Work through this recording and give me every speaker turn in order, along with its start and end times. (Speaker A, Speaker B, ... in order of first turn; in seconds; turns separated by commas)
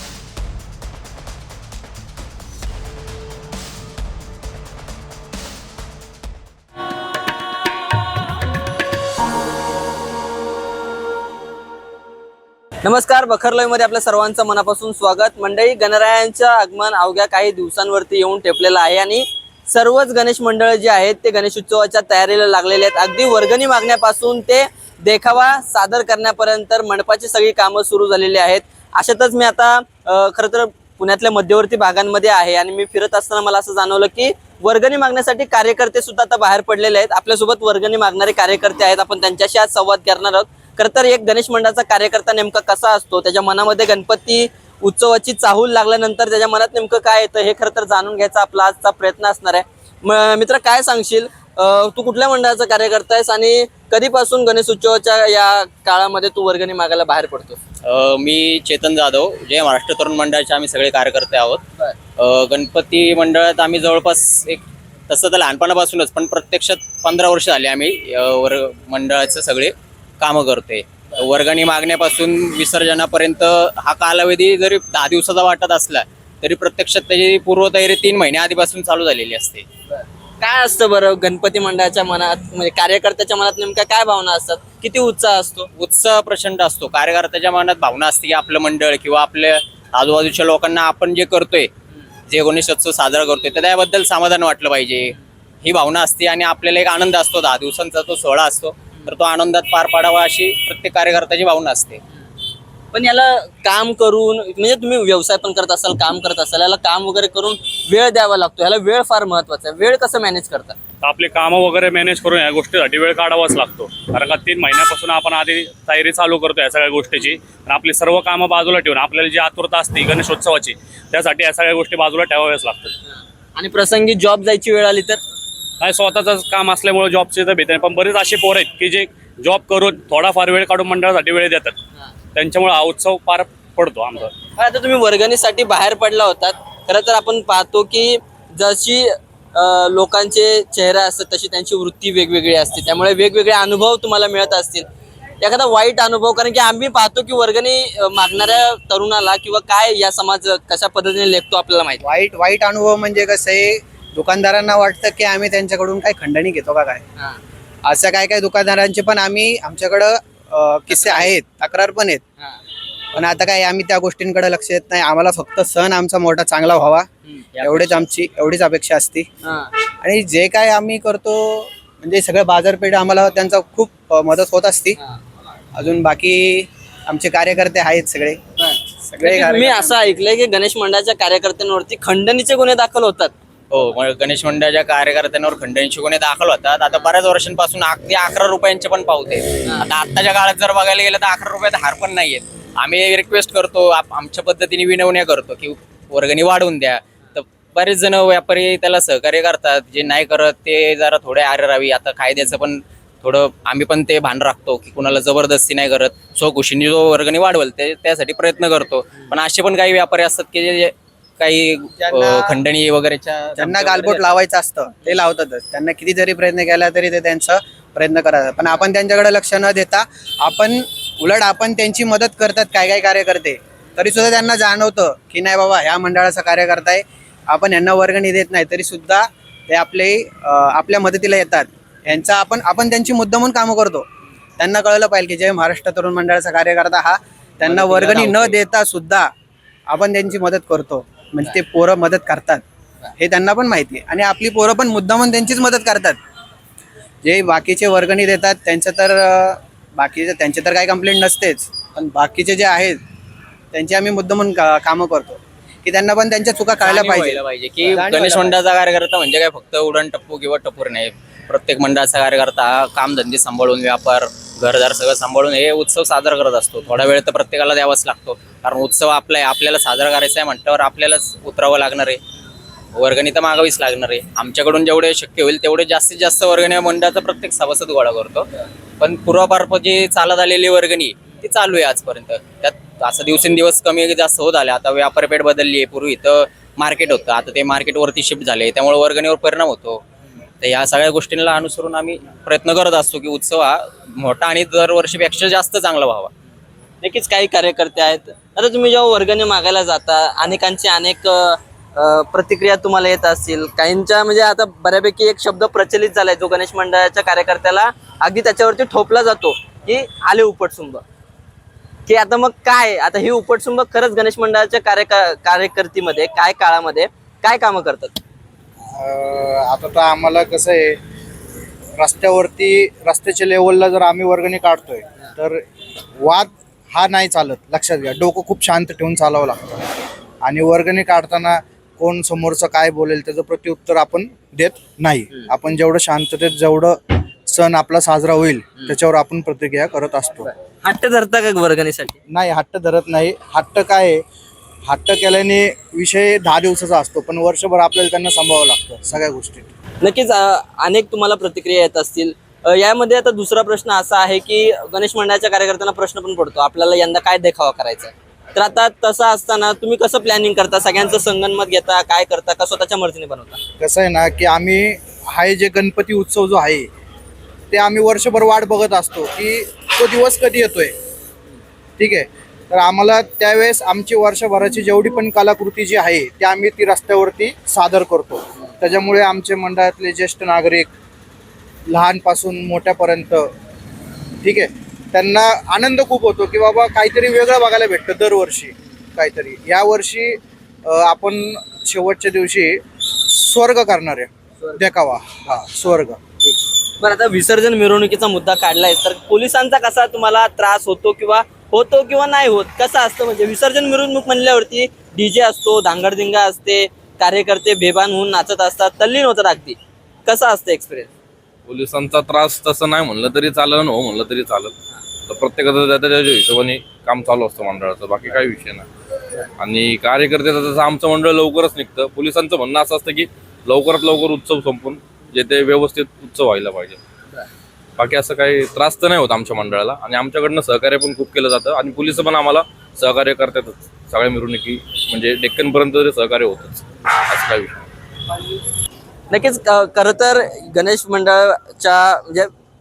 Speaker A: 12.8-57.6, Speaker B: 57.9-61.6, Speaker B: 62.2-79.7, Speaker A: 80.4-85.7, Speaker B: 85.8-91.7, Speaker B: 92.3-102.0, Speaker A: 102.9-110.8, Speaker C: 111.0-123.0, Speaker A: 123.6-125.2, Speaker C: 125.8-131.8, Speaker C: 132.3-134.3, Speaker A: 134.6-144.8, Speaker A: 145.4-152.0, Speaker D: 152.0-157.0, Speaker D: 157.8-162.2, Speaker A: 161.0-161.3, Speaker D: 163.1-167.1, Speaker B: 167.6-168.1, Speaker D: 167.6-169.3, Speaker A: 169.4-169.7, Speaker D: 170.0-175.0, Speaker D: 175.8-178.4, Speaker A: 178.6-183.3, Speaker D: 179.1-180.0, Speaker B: 183.7-214.3, Speaker D: 212.0-212.6, Speaker D: 213.6-234.1, Speaker D: 234.6-239.3, Speaker B: 237.6-238.6, Speaker D: 239.9-242.6, Speaker D: 243.2-246.2, Speaker D: 247.2-253.0, Speaker D: 253.7-258.6, Speaker B: 256.8-272.2, Speaker B: 272.9-278.5, Speaker B: 279.0-290.0, Speaker B: 290.6-296.3, Speaker A: 297.0-311.0, Speaker A: 312.1-318.2, Speaker E: 318.9-321.0, Speaker E: 322.0-325.6, Speaker E: 326.2-329.9, Speaker E: 330.4-340.5, Speaker A: 340.8-342.2, Speaker E: 342.3-344.2, Speaker E: 344.9-349.7, Speaker A: 350.0-363.6, Speaker E: 363.8-366.9, Speaker E: 367.7-370.9, Speaker E: 372.0-380.9, Speaker E: 381.9-383.5, Speaker E: 384.4-396.2, Speaker A: 396.5-411.1, Speaker F: 411.7-414.7, Speaker F: 415.3-418.9, Speaker F: 419.6-427.0, Speaker F: 428.0-437.9, Speaker A: 439.3-442.5